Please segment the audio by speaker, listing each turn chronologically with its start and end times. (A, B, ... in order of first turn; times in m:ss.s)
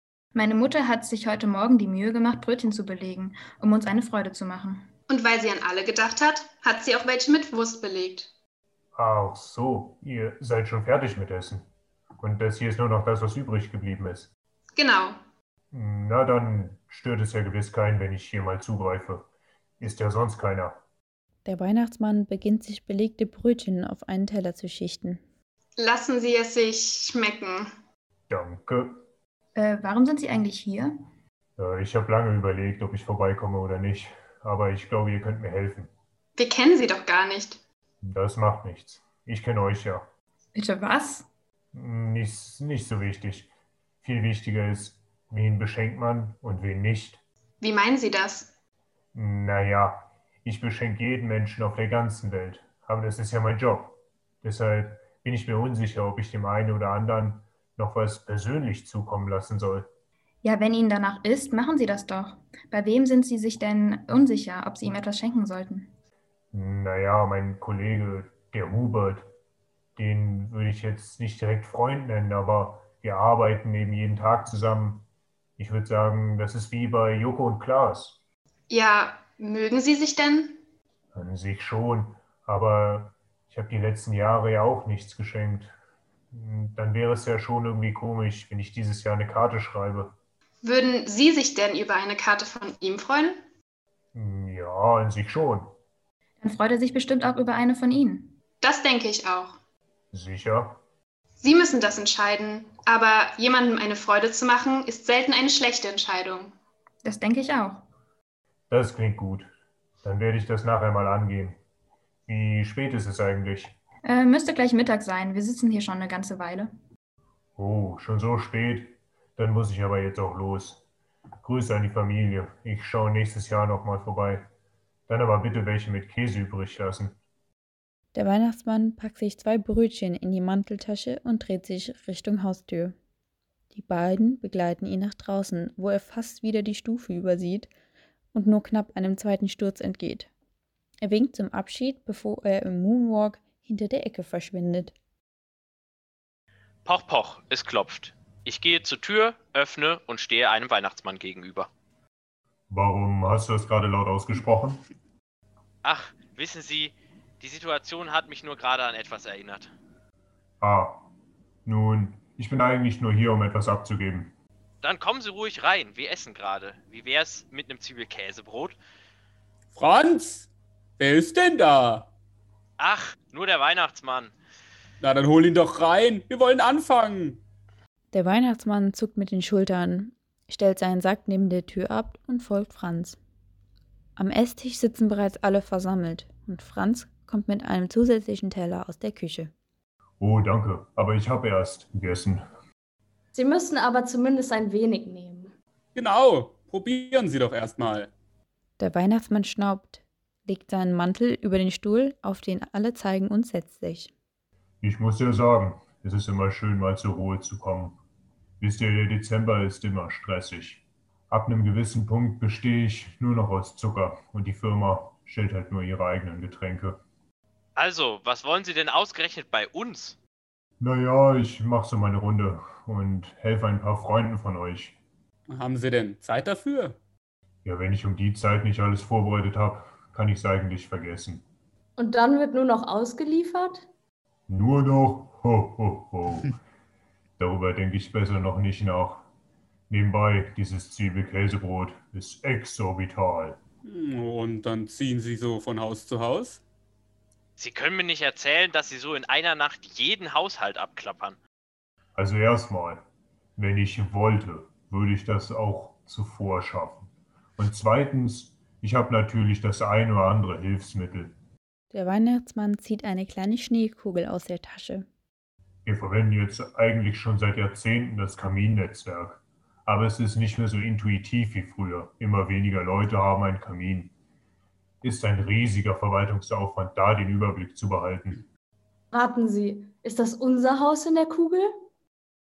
0:00.3-0:04.9 A
0:05.1-0:08.3 B
0:08.9-0:11.6 C
0:12.2-0:14.3 C
0:14.8-0:15.2 B
0:15.7-0:19.2 C
0:19.8-0:20.8 C
0:21.4-0:25.2 D
0:25.8-0:27.7 B
0:28.3-0:29.0 C
0:29.6-0:31.0 A
0:31.6-0:35.9 C
0:36.4-0:37.6 B
0:38.0-0:40.0 C
0:40.5-0:41.2 A
0:41.7-0:43.5 C
0:44.0-0:47.2 C
0:47.6-0:48.5 B
0:49.1-0:59.9 C
1:00.4-1:05.9 A
1:06.5-1:09.3 C
1:10.0-1:15.0 C
1:15.6-1:18.2 C
1:18.7-1:20.6 B
1:21.1-1:25.7 C
1:26.3-1:30.1 C
1:30.6-1:33.4 B
1:34.1-1:35.7 C
1:36.4-1:38.4 A
1:38.6-1:39.6 B
1:40.1-1:40.8 C
1:41.4-1:46.5 B
1:47.0-1:47.8 A
1:48.7-1:49.5 C
1:50.0-1:51.6 C
1:52.3-1:53.8 C
1:54.0-1:56.7 A
1:57.6-2:00.8 C
2:01.4-2:04.5 C
2:05.1-2:07.2 C
2:08.1-2:12.9 D
2:13.7-2:17.7 D
2:18.3-2:20.3 D
2:21.0-2:24.9 D
2:26.8-2:31.7 E
2:32.7-2:34.8 C
2:35.8-2:39.7 E
2:40.6-2:41.0 C
2:41.6-2:44.3 C
2:44.8-2:48.8 E
2:49.7-2:52.1 F
2:52.8-2:54.3 E
2:55.0-2:57.4 F
2:58.1-3:03.2 D
3:04.2-3:09.5 D
3:10.2-3:12.4 C
3:13.3-3:15.5 G
3:15.9-3:18.1 F
3:18.8-3:24.1 D
3:24.8-3:28.0 C
3:28.6-3:37.0 C
3:37.8-3:40.2 E
3:40.8-3:45.0 C
3:45.5-3:47.0 F
3:47.6-3:51.4 C
3:52.0-3:53.9 G
3:54.5-3:56.5 C
3:57.4-3:59.2 C
3:59.9-4:03.6 C
4:03.8-4:06.6 F
4:07.6-4:11.4 E
4:12.2-4:13.0 C
4:13.6-4:21.3 C
4:21.9-4:25.1 D
4:25.8-4:34.1 C
4:35.0-4:38.4 C
4:39.1-4:41.7 G